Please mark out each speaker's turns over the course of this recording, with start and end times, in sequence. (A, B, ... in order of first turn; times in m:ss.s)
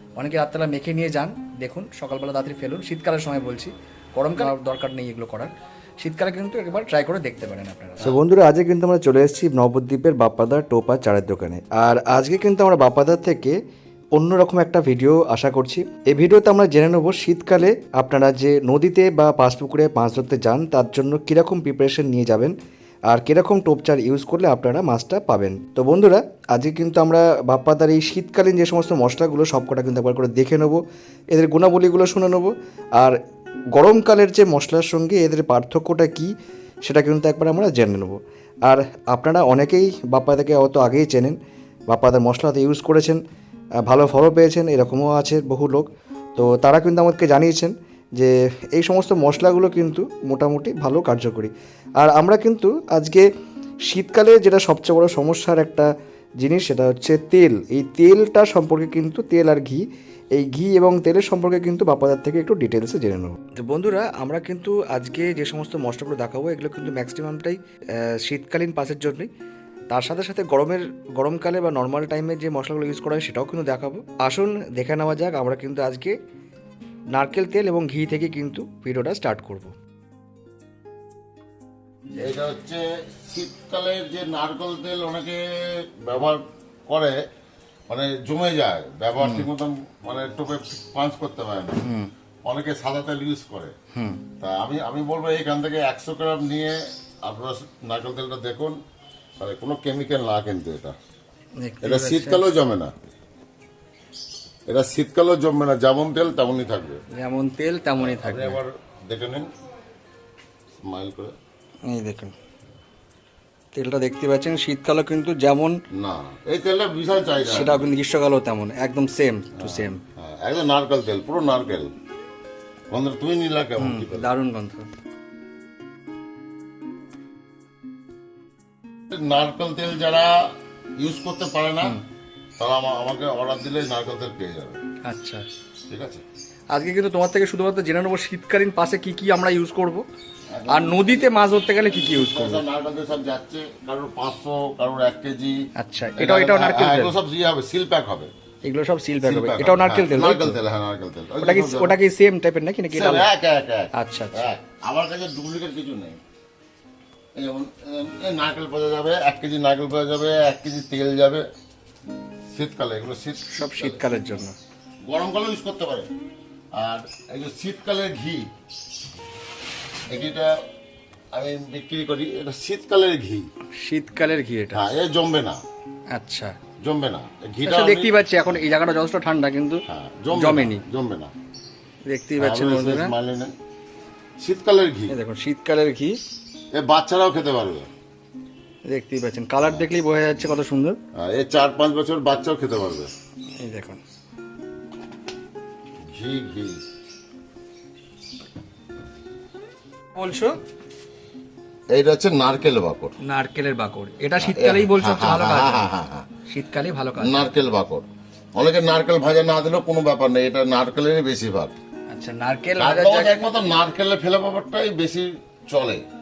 0:00.2-0:08.2 A
0:08.0-0:13.6 B
0:14.1-0:22.6 B
0:23.1-0:33.2 B
0:33.7-0:41.4 B
0:41.9-0:43.2 B
0:43.8-0:53.3 B
0:53.8-1:09.3 B
1:09.9-1:16.2 B
1:17.1-1:19.7 B
1:22.2-1:27.2 C
1:27.9-1:31.8 C
1:29.2-1:29.5 A
1:31.8-1:32.1 A
1:32.4-1:33.7 C
1:33.9-1:34.2 A
1:34.4-1:38.8 C
1:39.4-1:41.0 C
1:41.6-1:42.4 A
1:41.8-1:43.0 C
1:44.7-1:47.0 C
1:47.1-1:48.6 A
1:48.0-1:49.5 C
1:50.8-1:51.3 C
1:51.9-1:52.4 A
1:53.8-1:55.8 A
1:55.9-1:57.9 C
1:57.5-2:00.0 A
1:59.6-2:01.9 C
2:02.9-2:04.3 C
2:03.8-2:04.9 A
2:09.1-2:12.0 C
2:12.6-2:14.8 C
2:15.0-2:15.5 A
2:15.9-2:16.2 C
2:16.7-2:20.0 A
2:20.5-2:25.6 C
2:20.7-2:22.6 A
2:25.8-2:27.1 A
2:26.2-2:28.3 C
2:28.6-2:30.6 A
2:29.2-2:32.0 C
2:31.4-2:33.3 A
2:32.9-2:36.2 C
2:33.9-2:34.5 A
2:37.4-2:41.5 C
2:42.5-2:44.0 C
2:43.5-2:44.6 A
2:45.0-2:46.1 C
2:46.7-2:48.5 C
2:50.1-2:50.6 C
2:51.3-2:53.5 C
2:53.8-2:54.8 A
2:54.7-2:55.6 C
2:56.1-2:56.6 A
2:56.8-2:58.5 C
2:57.6-3:00.8 A
2:59.9-3:01.3 C
3:02.1-3:03.1 A
3:02.4-3:03.5 C
3:04.4-3:05.2 C
3:05.1-3:06.2 A
3:06.7-3:07.9 C
3:08.9-3:11.0 A
3:11.2-3:13.1 C
3:13.6-3:14.0 A
3:16.1-3:16.8 C
3:20.2-3:20.6 A
3:21.9-3:23.2 C
3:23.2-3:25.9 A
3:24.4-3:26.3 C
3:26.5-3:27.5 A
3:27.2-3:31.8 C
3:32.1-3:33.5 A
3:32.8-3:36.0 C